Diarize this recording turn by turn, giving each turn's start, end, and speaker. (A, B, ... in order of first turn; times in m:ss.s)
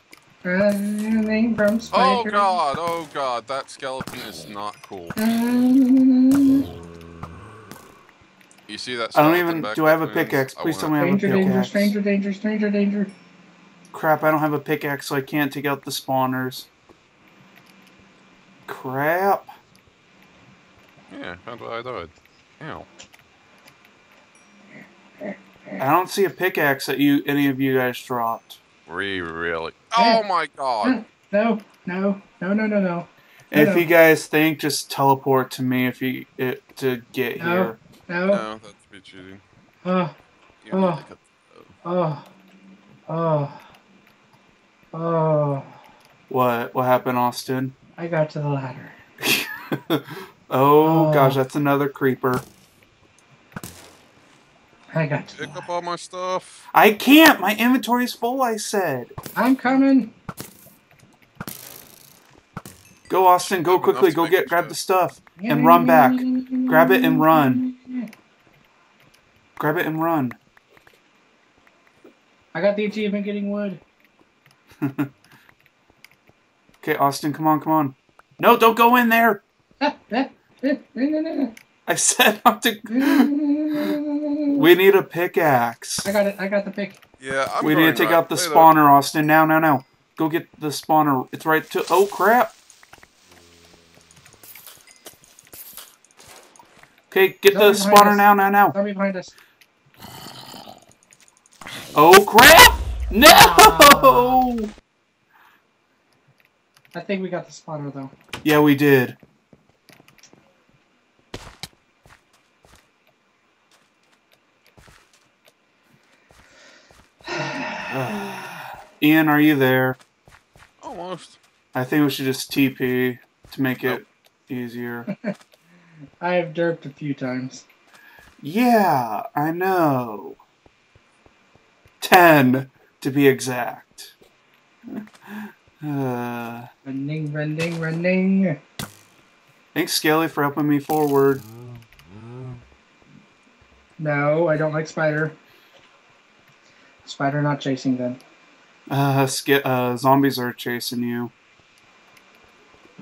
0:00.4-0:02.6 A
0:01.9-0:05.2 B
0:05.2-0:06.7 A
0:08.7-0:11.0 B
0:09.1-0:12.0 C
0:11.0-0:13.1 A
0:13.9-0:16.7 C
0:18.7-0:19.5 C
0:21.1-0:22.9 B
0:25.8-0:28.6 C
0:28.9-0:31.0 B
0:30.0-0:30.2 A
0:30.8-0:33.9 A
0:33.5-0:37.8 C
0:37.4-0:38.5 A
0:38.3-0:39.4 B
0:39.8-0:40.1 A
0:40.6-0:41.8 B
0:40.7-0:41.0 A
0:41.8-0:42.3 A
0:43.1-0:43.6 A
0:44.9-0:45.7 A
0:46.3-0:47.8 C
0:48.0-0:49.0 A
0:49.2-0:52.5 C
0:50.8-0:51.4 A
0:54.9-0:55.6 A
0:55.4-0:56.7 B
0:56.7-0:59.1 C
0:59.4-1:00.1 A
1:03.1-1:07.6 C
1:03.4-1:04.8 B
1:05.4-1:08.1 A
1:09.6-1:10.4 C
1:12.5-1:13.8 A
1:14.8-1:15.1 C
1:16.8-1:19.4 C
1:19.8-1:21.5 A
1:21.9-1:24.0 C
1:22.9-1:24.7 A
1:24.5-1:26.1 C
1:26.0-1:27.0 A
1:27.2-1:28.7 B
1:27.6-1:32.5 C
1:37.1-1:38.8 C
1:37.5-1:39.3 A
1:41.9-1:44.7 C
1:43.2-1:44.4 A
1:46.9-1:48.1 A
1:48.4-1:49.2 C
1:57.3-1:57.9 A
1:57.9-2:00.0 C
2:00.8-2:01.4 B
2:01.7-2:05.1 C
2:05.1-2:05.4 A
2:06.2-2:07.6 A
2:08.4-2:10.4 C
2:12.0-2:14.2 C
2:14.9-2:16.7 C
2:16.8-2:18.6 A
2:19.7-2:21.5 C
2:24.0-2:25.4 A
2:27.0-2:28.2 A
2:28.9-2:31.3 C